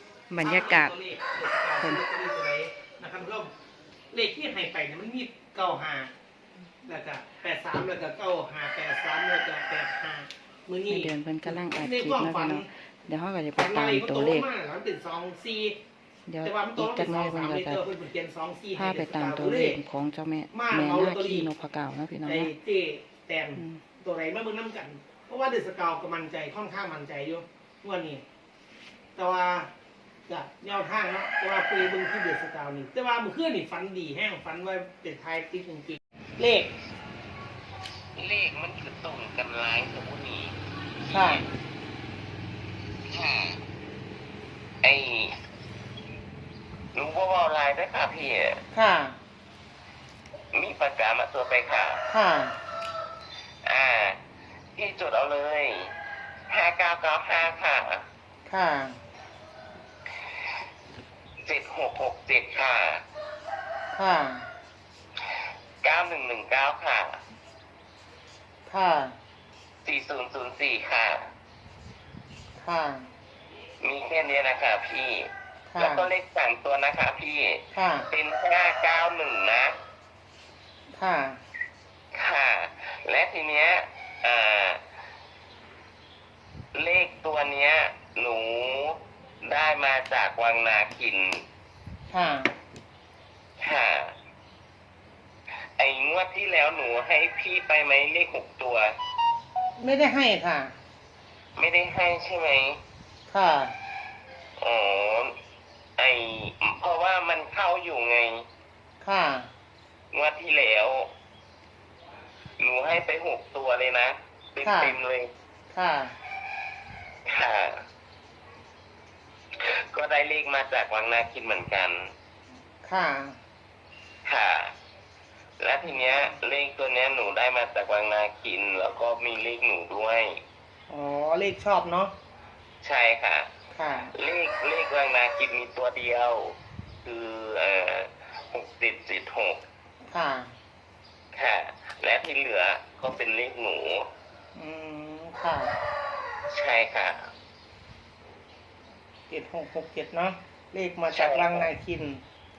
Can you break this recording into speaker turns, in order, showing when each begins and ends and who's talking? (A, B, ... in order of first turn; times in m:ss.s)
0:00.3-0:00.9 A
0:00.4-0:03.5 B
0:04.1-0:06.1 B
0:06.8-0:12.7 B
0:10.9-0:14.5 A
0:13.6-0:15.8 B
0:16.3-0:17.8 A
0:16.4-0:19.8 B
0:18.8-0:22.5 A
0:20.5-0:21.5 B
0:22.2-0:28.2 B
0:23.6-0:23.8 A
0:29.2-0:29.7 B
0:30.3-0:36.7 B
0:38.2-0:40.5 C
0:41.1-0:41.4 B
0:41.1-0:41.4 C
0:43.1-0:43.6 C
0:44.8-0:45.3 C
0:46.9-0:48.6 C
0:48.7-0:49.2 B
0:50.5-0:52.0 C
0:52.1-0:52.6 B
0:53.7-0:54.2 C
0:54.8-0:55.9 C
0:56.5-0:58.0 C
0:58.4-0:59.0 B
1:01.4-1:03.0 C
1:03.9-1:04.5 B
1:05.8-1:07.2 C
1:08.7-1:09.1 B
1:09.8-1:11.3 C
1:12.6-1:13.1 B
1:13.8-1:19.7 C
1:15.7-1:16.1 B
1:17.7-1:18.1 B
1:20.9-1:21.4 B
1:22.1-1:24.8 C
1:26.8-1:31.4 C
1:32.1-1:32.5 B
1:33.6-1:34.1 C
1:35.8-1:38.9 C
1:39.8-1:40.7 B
1:41.6-1:42.8 C
1:43.3-1:43.7 B
1:44.6-1:45.3 C
1:46.0-1:48.4 C
1:49.0-1:49.5 B
1:50.1-1:51.1 C
1:52.6-1:55.3 C
1:54.6-1:55.0 B
1:55.7-1:56.1 B
1:57.3-1:57.8 C
1:59.6-2:02.0 C
2:02.8-2:03.4 B
2:04.2-2:04.7 C
2:05.6-2:10.4 C
2:10.9-2:12.1 B
2:12.8-2:13.5 C
2:13.7-2:14.1 B
2:14.1-2:19.6 C
2:20.1-2:20.5 B
2:21.3-2:24.0 C
2:24.5-2:25.7 B
2:26.5-2:27.3 C
2:29.3-2:32.2 B
2:31.1-2:31.7 C